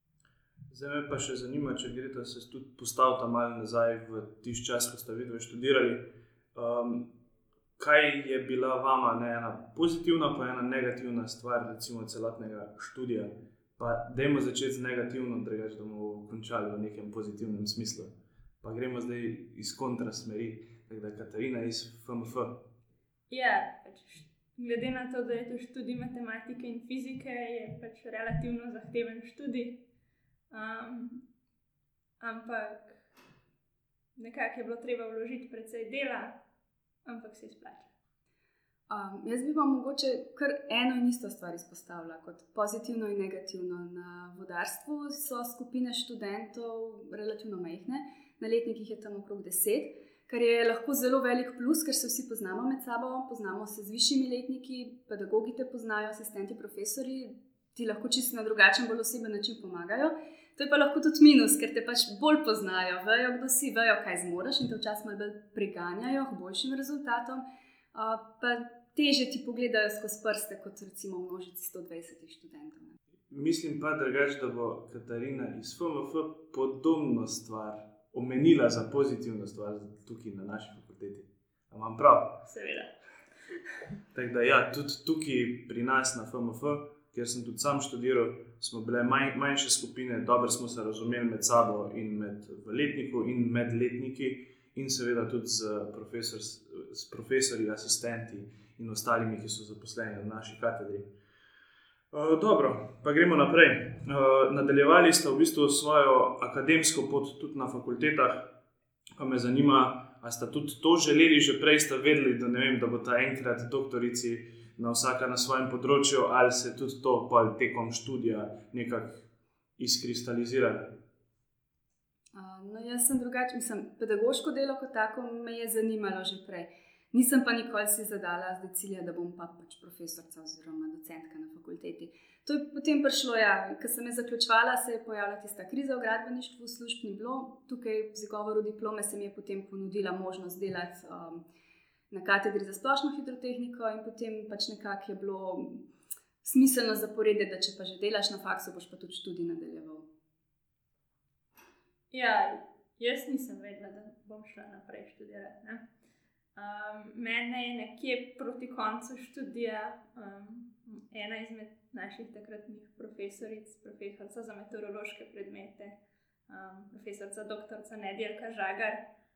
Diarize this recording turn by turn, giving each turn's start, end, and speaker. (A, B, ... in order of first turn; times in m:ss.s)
0:00.7-0:07.1 A
0:07.8-0:22.6 A
0:23.3-0:29.8 B
0:30.5-0:31.2 B
0:32.2-0:33.0 B
0:34.2-0:36.4 B
0:37.0-0:37.9 B
0:38.9-1:07.4 C
1:07.9-1:13.0 C
1:13.3-1:22.4 A
1:22.4-1:22.9 B
1:24.1-1:41.1 A
1:42.1-1:48.5 A
1:49.2-1:59.2 A
1:59.8-2:01.0 A
2:02.3-2:21.4 C
2:22.1-2:25.8 C
2:26.4-2:30.0 C
2:32.1-2:35.8 B
2:36.6-2:46.0 B
2:46.5-2:49.0 B